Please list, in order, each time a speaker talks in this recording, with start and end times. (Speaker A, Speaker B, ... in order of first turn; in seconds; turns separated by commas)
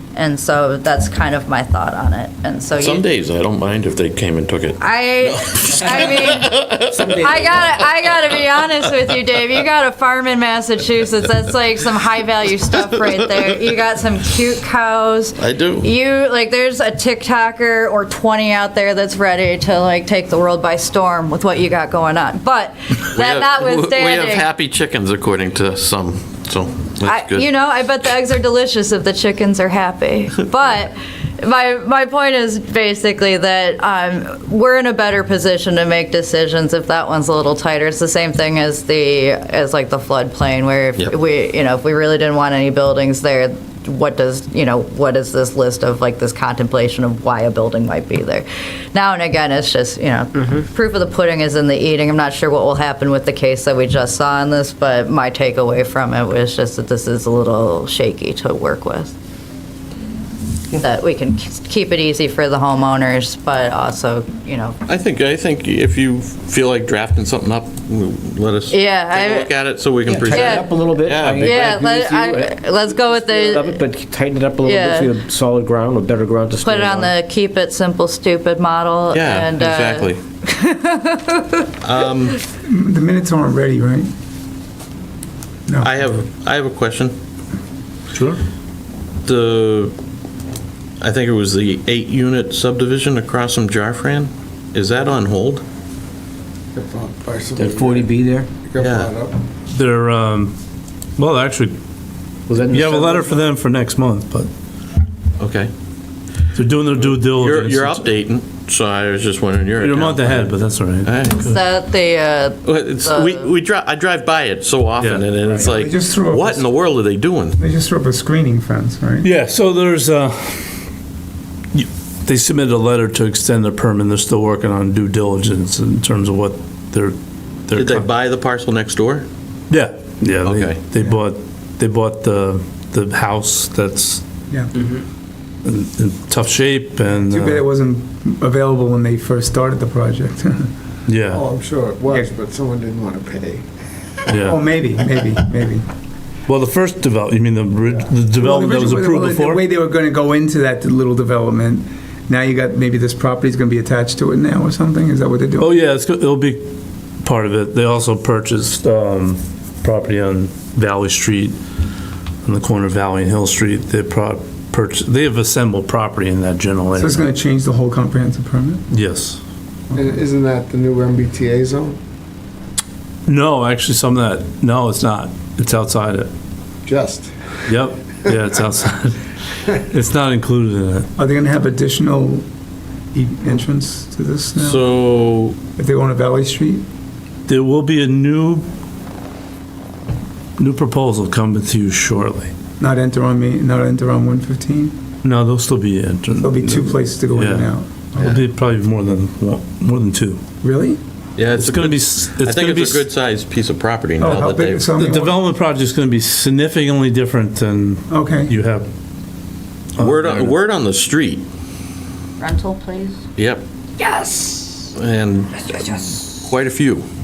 Speaker A: 0.1-3.1, Speaker B: 2.8-7.7, Speaker A: 4.8-6.5, Speaker A: 7.1-24.5, Speaker B: 15.4-15.9, Speaker B: 23.1-27.5, Speaker A: 27.0-59.1, Speaker A: 60.7-64.8, Speaker B: 64.9-71.8, Speaker A: 68.7-69.5, Speaker C: 70.0-77.1, Speaker A: 70.3-70.7, Speaker A: 71.4-73.8, Speaker A: 74.6-75.1, Speaker A: 76.6-81.7, Speaker B: 79.1-80.2, Speaker B: 81.8-82.3, Speaker D: 82.6-84.1, Speaker B: 85.8-87.1, Speaker E: 88.1-88.4, Speaker B: 89.2-89.9, Speaker B: 91.0-95.6, Speaker F: 96.7-98.1, Speaker C: 97.5-98.5, Speaker F: 98.6-99.3, Speaker B: 98.8-99.1, Speaker E: 99.7-100.5, Speaker E: 101.2-101.8, Speaker C: 102.5-103.4, Speaker E: 102.5-104.5, Speaker B: 105.4-105.7, Speaker E: 106.5-108.1, Speaker B: 107.0-110.5, Speaker E: 109.8-111.6, Speaker B: 111.0-111.5, Speaker A: 111.4-113.5, Speaker B: 112.6-117.6, Speaker E: 115.0-115.3, Speaker D: 115.5-116.7, Speaker D: 117.6-119.3, Speaker E: 119.2-120.8, Speaker E: 121.7-127.2, Speaker E: 127.7-128.1, Speaker B: 127.7-129.2, Speaker E: 129.7-134.2, Speaker B: 130.4-130.8, Speaker E: 135.6-137.6, Speaker D: 137.3-140.7, Speaker E: 141.1-141.4, Speaker F: 141.3-143.6, Speaker E: 144.3-144.6, Speaker D: 144.4-145.8, Speaker E: 146.5-149.6, Speaker D: 148.3-155.7, Speaker E: 155.6-156.6, Speaker E: 157.2-161.5, Speaker E: 162.4-167.3, Speaker D: 166.9-168.8, Speaker E: 168.9-169.4, Speaker D: 169.9-170.2, Speaker F: 169.9-172.0, Speaker E: 173.3-176.3, Speaker F: 176.8-177.3, Speaker E: 177.7-179.2, Speaker E: 179.9-181.1, Speaker D: 181.2-182.4, Speaker D: 183.1-184.8, Speaker B: 184.6-185.6, Speaker D: 185.8-186.8, Speaker E: 187.5-188.6, Speaker E: 190.6-192.5, Speaker D: 192.8-194.9, Speaker E: 195.2-200.4, Speaker D: 196.4-198.4, Speaker D: 200.6-201.0, Speaker B: 201.4-204.9, Speaker E: 201.5-203.0, Speaker D: 204.2-205.4, Speaker E: 205.0-208.8, Speaker D: 208.1-208.5, Speaker E: 210.0-210.6, Speaker B: 210.0-211.4, Speaker A: 212.4-213.2, Speaker B: 213.4-213.6, Speaker A: 214.0-214.9, Speaker B: 214.9-217.0